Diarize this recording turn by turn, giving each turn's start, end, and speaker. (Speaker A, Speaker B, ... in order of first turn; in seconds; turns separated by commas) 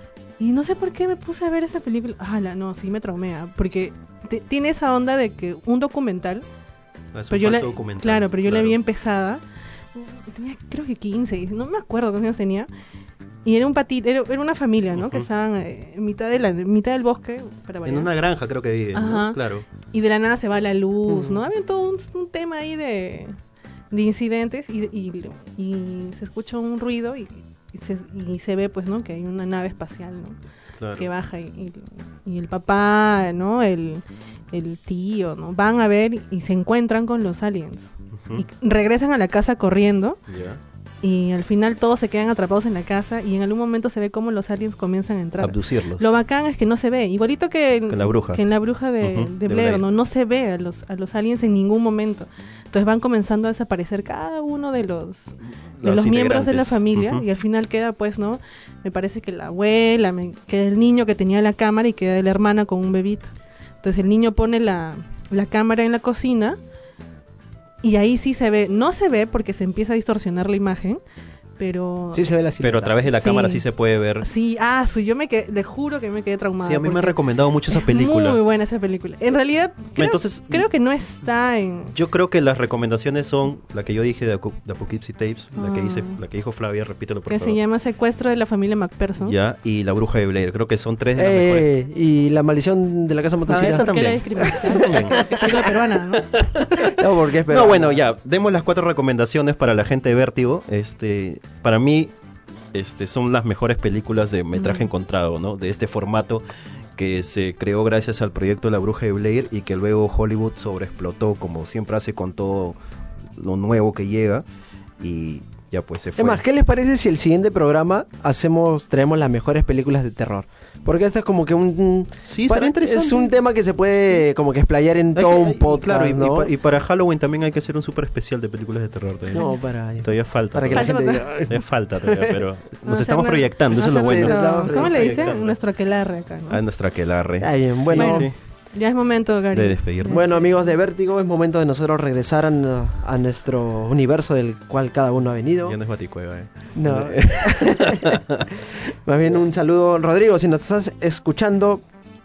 Speaker A: 0.4-6.4, Speaker B: 7.1-8.8, Speaker A: 7.3-9.4, Speaker A: 9.9-12.7, Speaker A: 13.4-18.1, Speaker B: 15.0-15.2, Speaker B: 17.8-19.7, Speaker A: 18.9-23.4, Speaker C: 21.1-21.4, Speaker A: 23.9-30.4, Speaker B: 30.7-31.1, Speaker A: 30.9-40.2, Speaker B: 40.3-40.6, Speaker A: 41.0-66.6, Speaker B: 45.4-46.1, Speaker B: 47.9-48.4, Speaker B: 49.0-49.8, Speaker B: 55.8-57.2, Speaker A: 67.8-71.0, Speaker A: 71.6-72.3, Speaker C: 72.1-73.0, Speaker B: 72.6-74.2, Speaker A: 73.0-73.6, Speaker A: 74.2-81.9, Speaker B: 76.6-78.4, Speaker B: 80.0-80.7, Speaker B: 81.9-87.6, Speaker A: 85.6-86.2, Speaker A: 87.3-89.3, Speaker B: 89.2-91.7, Speaker C: 91.2-93.9, Speaker B: 93.5-102.1, Speaker A: 93.5-96.4, Speaker C: 94.4-95.5, Speaker C: 96.8-98.0, Speaker B: 102.7-106.4, Speaker A: 104.5-104.9, Speaker B: 107.0-112.8, Speaker B: 113.4-114.4, Speaker B: 115.0-116.4, Speaker C: 116.2-126.5, Speaker B: 122.2-123.3, Speaker B: 125.1-129.5, Speaker A: 129.3-129.6, Speaker C: 129.3-132.4, Speaker B: 130.0-135.6, Speaker A: 130.7-131.4, Speaker A: 132.8-136.6, Speaker C: 133.8-135.3, Speaker B: 136.5-138.3, Speaker C: 137.4-138.3, Speaker A: 138.0-140.7, Speaker B: 139.5-140.2, Speaker C: 140.1-145.8, Speaker B: 145.6-148.6, Speaker C: 146.8-148.2, Speaker C: 148.9-151.8